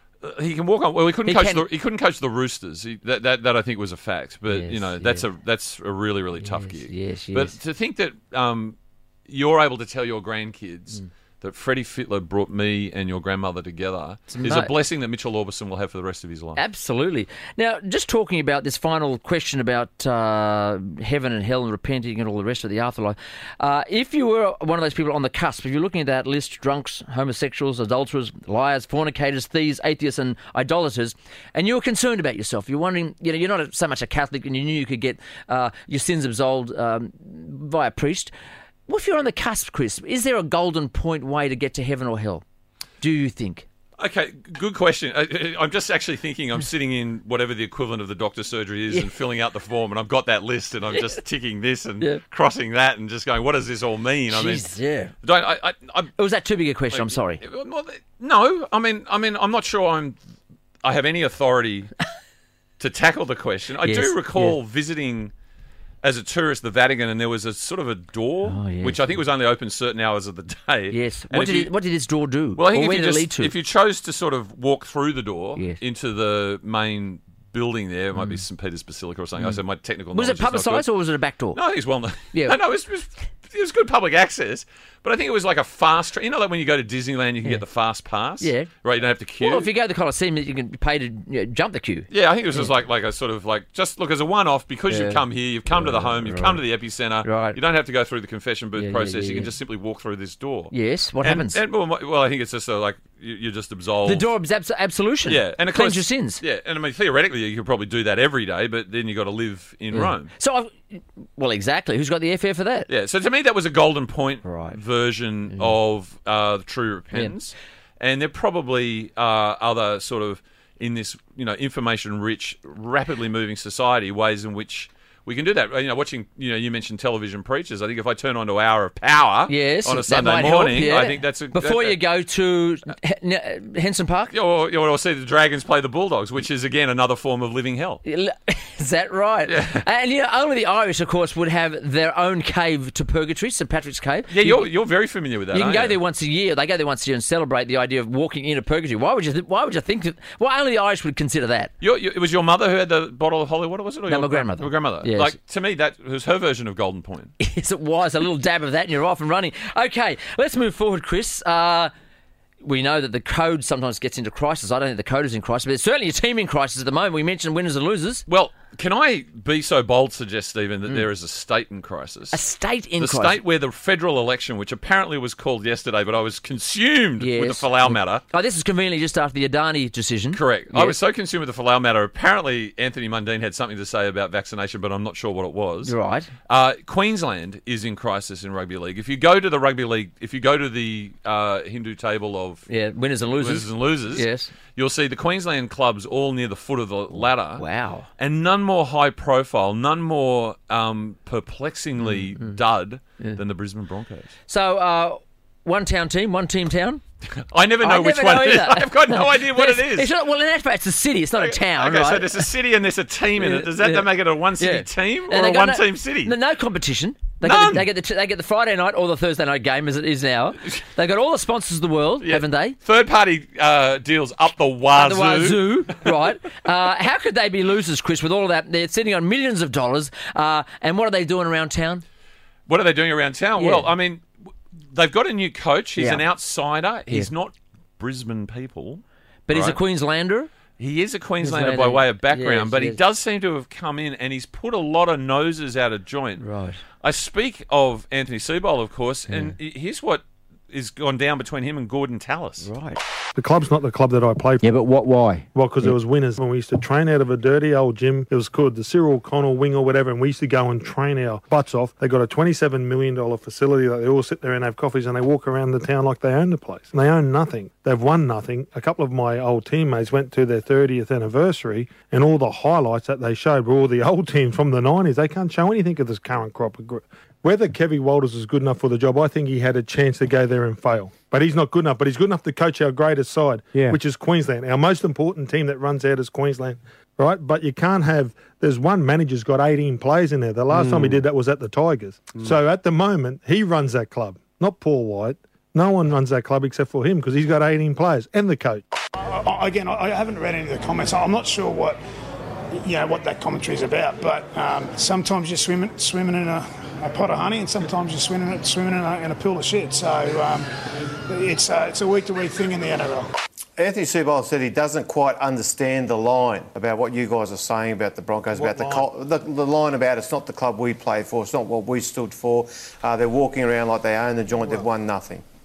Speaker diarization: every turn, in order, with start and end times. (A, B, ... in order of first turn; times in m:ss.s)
0:00.2-0:08.8 A
0:01.3-0:01.6 B
0:04.5-0:05.2 B
0:06.4-0:07.6 B
0:09.3-0:16.6 A
0:14.3-0:14.7 B
0:16.6-0:38.3 B
0:38.9-0:42.4 B
0:43.0-0:43.7 B
0:44.0-0:54.6 A
0:54.3-0:55.1 B
0:55.2-0:56.1 A
0:56.2-0:57.4 B
0:56.9-1:00.2 A
1:00.8-1:01.9 A
1:02.8-1:05.3 A
1:03.8-1:04.6 B
1:06.0-1:11.7 A
1:08.5-1:09.2 B
1:10.9-1:13.5 B
1:12.6-1:20.9 A
1:20.1-1:21.6 B
1:21.5-1:29.7 A
1:28.4-1:28.7 B
1:29.4-1:32.7 B
1:32.1-1:44.3 A
1:34.9-1:36.6 B
1:37.2-1:37.6 B
1:38.8-1:39.5 B
1:40.7-1:41.6 B
1:44.0-1:46.4 B
1:45.3-1:50.3 A
1:49.9-1:52.9 B
1:52.9-2:12.0 A
1:54.4-1:54.8 B
2:09.5-2:14.3 B
2:14.3-2:18.0 A
2:18.0-2:24.7 B
2:19.5-2:19.8 A
2:24.3-2:26.0 A
2:25.5-2:31.7 B
2:31.8-2:37.3 A
2:34.1-2:35.4 B
2:37.4-2:41.9 B
2:42.6-2:48.2 B
2:48.3-2:52.4 A
2:52.3-2:53.4 B
2:53.0-2:58.2 A
2:57.2-3:01.0 B
3:00.3-3:05.9 A
3:05.8-3:06.3 B
3:06.5-3:12.7 A
3:12.7-3:14.5 B
3:13.4-3:17.6 A
3:17.1-3:18.1 B
3:18.2-3:24.3 A
3:22.0-3:22.6 B
3:24.5-3:27.0 B
3:27.4-3:30.1 A
3:27.8-3:32.5 B
3:31.4-3:36.4 A
3:33.4-3:34.1 B
3:34.6-3:42.8 B
3:37.4-3:37.9 A
3:42.2-3:46.0 A
3:45.0-3:52.0 B
3:52.7-3:54.3 A
3:53.6-3:53.9 B
3:54.9-3:59.8 A
3:56.0-3:56.2 B
3:59.5-4:00.5 B
4:00.8-4:06.4 A
4:01.4-4:03.0 B
4:06.4-4:06.8 B
4:07.0-4:12.7 A
4:12.6-4:13.0 B
4:13.4-4:14.7 C
4:15.5-4:58.8 C
4:59.2-5:02.0 D
5:02.8-5:10.7 D
5:11.3-5:13.3 D
5:13.8-5:25.4 E
5:18.6-5:19.1 C
5:24.6-5:24.9 C